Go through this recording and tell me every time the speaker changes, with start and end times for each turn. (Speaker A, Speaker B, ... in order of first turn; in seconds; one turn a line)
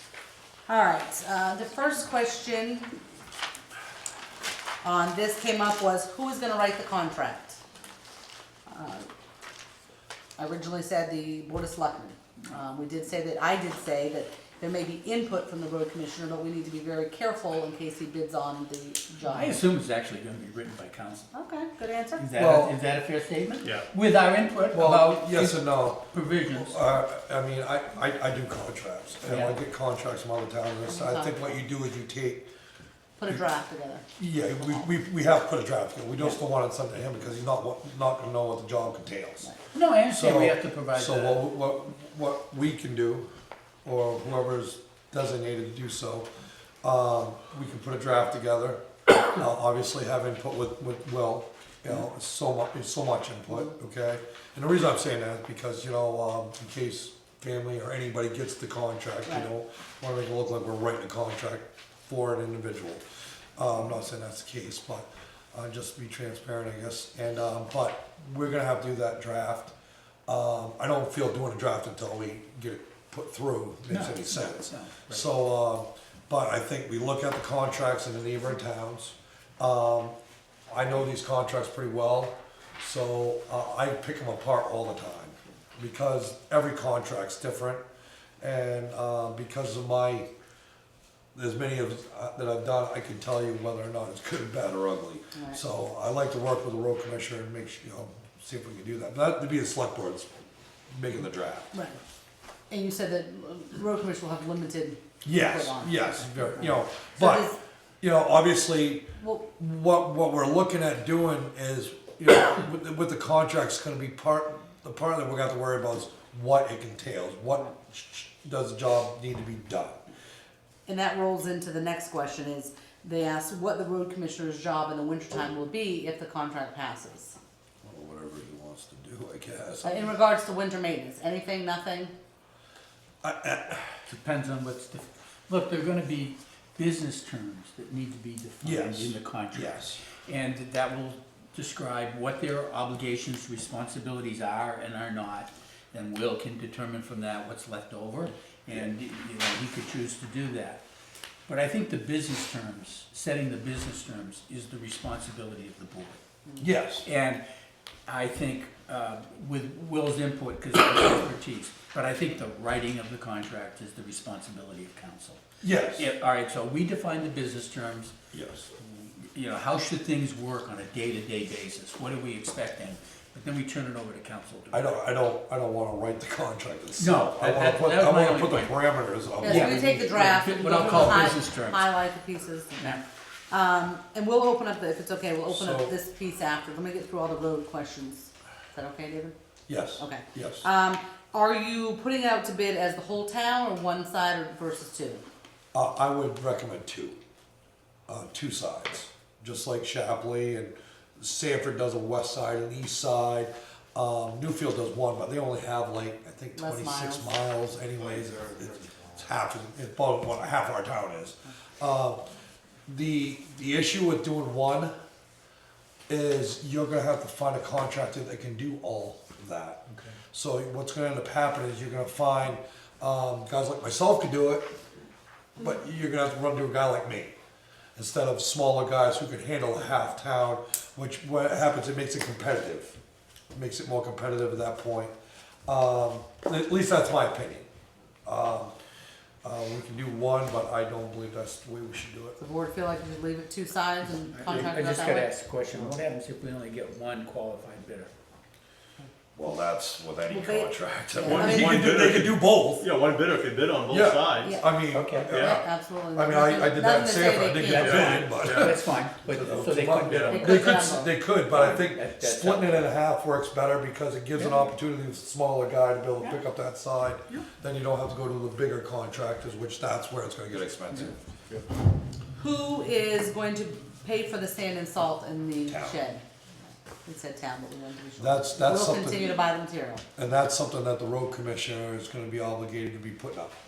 Speaker A: 0.7-2.9
Speaker A: 4.8-7.6
Speaker A: 8.7-9.1
Speaker A: 10.4-19.6
Speaker B: 19.2-21.3
Speaker A: 21.3-22.3
Speaker B: 22.2-26.8
Speaker C: 22.3-22.8
Speaker C: 24.7-32.5
Speaker B: 29.2-29.6
Speaker A: 30.8-31.6
Speaker A: 33.2-34.0
Speaker C: 34.2-39.5
Speaker A: 34.6-34.9
Speaker B: 39.7-41.4
Speaker C: 40.0-43.3
Speaker C: 43.9-46.3
Speaker C: 46.8-63.0
Speaker C: 63.6-69.7
Speaker C: 70.3-80.1
Speaker B: 73.9-75.2
Speaker C: 80.7-87.8
Speaker C: 88.4-90.3
Speaker C: 91.3-100.3
Speaker A: 95.3-95.6
Speaker C: 100.9-101.7
Speaker A: 101.7-102.0
Speaker A: 102.7-107.6
Speaker C: 105.2-120.0
Speaker A: 109.2-109.5
Speaker A: 120.9-127.4
Speaker C: 127.8-130.1
Speaker A: 129.8-132.1
Speaker C: 133.2-134.0
Speaker B: 134.1-150.8
Speaker C: 138.6-140.0
Speaker B: 151.5-156.2
Speaker C: 156.6-157.1
Speaker B: 157.0-157.4
Speaker B: 158.1-165.4
Speaker C: 165.6-166.1
Speaker B: 165.9-168.1
Speaker C: 168.3-168.7
Speaker B: 168.8-175.0
Speaker C: 174.7-181.2
Speaker B: 177.0-178.8
Speaker B: 179.4-181.9
Speaker A: 179.4-189.3
Speaker C: 185.5-185.9
Speaker C: 189.7-190.6
Speaker A: 190.0-195.2
Speaker C: 195.7-197.2
Speaker C: 198.1-212.2
Speaker A: 206.5-207.3
Speaker C: 212.9-214.9
Speaker C: 216.1-224.7
Speaker C: 225.6-227.3
Speaker C: 227.9-233.0
Speaker C: 233.5-235.1
Speaker C: 235.7-237.7
Speaker C: 238.2-238.7
Speaker C: 239.4-242.4
Speaker A: 242.4-245.3
Speaker B: 244.3-248.1
Speaker C: 249.3-252.9
Speaker A: 250.2-251.8
Speaker D: 251.2-254.5
Speaker C: 253.9-271.2
Speaker A: 254.4-254.8
Speaker B: 254.9-255.3
Speaker D: 255.3-255.6
Speaker A: 255.3-258.3
Speaker B: 257.6-260.8
Speaker D: 257.7-258.7
Speaker D: 260.1-260.5
Speaker A: 260.3-261.1
Speaker B: 261.4-263.0
Speaker B: 264.4-264.7
Speaker A: 272.4-276.2
Speaker C: 275.7-276.0
Speaker A: 277.0-280.0
Speaker C: 278.2-279.4
Speaker C: 280.1-283.5